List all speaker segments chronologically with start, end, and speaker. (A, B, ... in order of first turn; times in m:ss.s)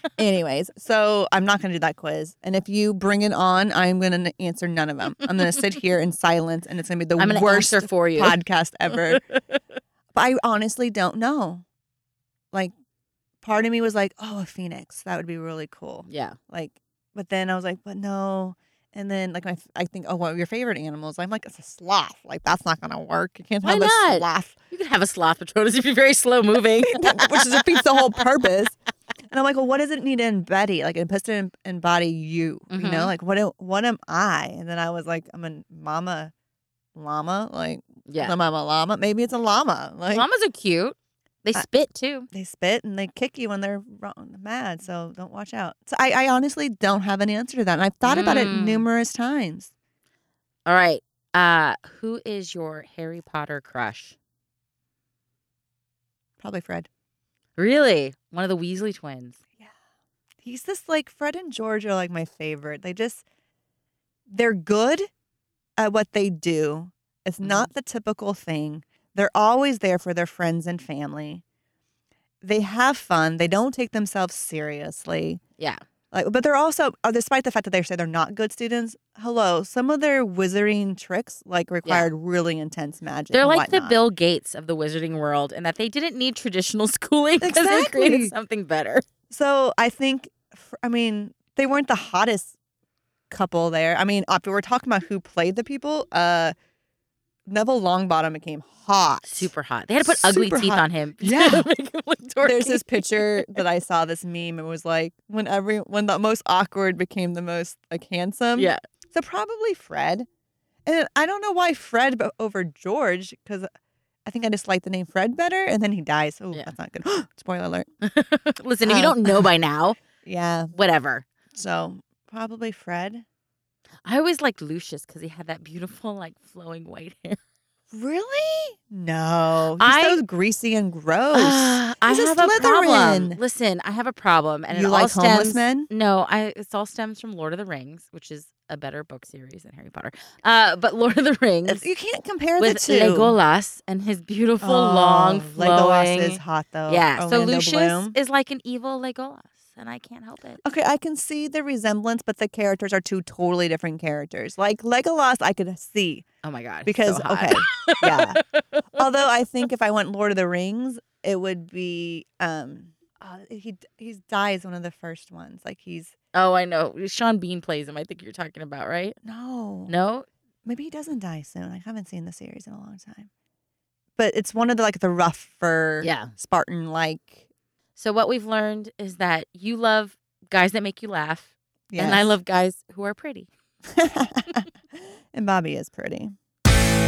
0:00.2-0:09.2 A
0:07.2-0:08.4 B
0:10.1-0:11.6 A
0:13.4-0:24.5 A
0:16.1-0:16.4 B
0:23.6-0:28.0 B
0:26.9-0:28.8 A
0:29.3-0:36.3 A
0:32.7-0:33.1 B
0:37.0-0:40.3 A
0:38.1-0:38.4 B
0:40.1-0:42.3 B
0:42.3-0:49.7 A
0:48.0-0:48.8 B
0:50.6-0:54.1 B
0:56.4-0:56.9 A
0:57.6-0:59.4 B
1:00.4-1:03.2 A
1:04.3-1:05.1 A
1:05.8-1:11.4 A
1:07.4-1:07.7 B
1:12.4-1:15.4 A
1:16.1-1:24.0 A
1:23.3-1:29.0 B
1:27.4-1:28.3 A
1:29.3-1:32.5 A
1:33.3-1:36.5 A
1:37.5-1:41.7 A
1:39.2-1:43.6 B
1:42.4-1:50.2 A
1:48.6-1:48.8 B
1:50.8-1:53.7 A
1:54.2-1:57.9 A
1:58.0-2:00.0 B
1:58.8-1:59.5 A
2:00.2-2:00.7 A
2:00.7-2:01.2 B
2:01.5-2:03.2 A
2:04.0-2:07.4 B
2:07.9-2:13.4 A
2:09.8-2:10.2 B
2:11.3-2:21.8 B
2:14.7-2:15.9 A
2:21.6-2:23.3 A
2:22.6-2:30.6 B
2:24.6-2:28.2 A
2:30.6-2:36.2 A
2:36.4-2:38.8 B
2:36.8-2:38.4 A
2:38.9-2:46.1 A
2:46.3-2:49.2 B
2:49.2-2:49.9 A
2:49.9-2:50.3 B
2:50.6-2:53.3 A
2:54.2-2:57.4 A
2:56.0-2:56.3 B
2:58.0-3:03.5 B
3:01.9-3:02.3 A
3:04.0-3:04.6 A
3:05.3-3:06.3 A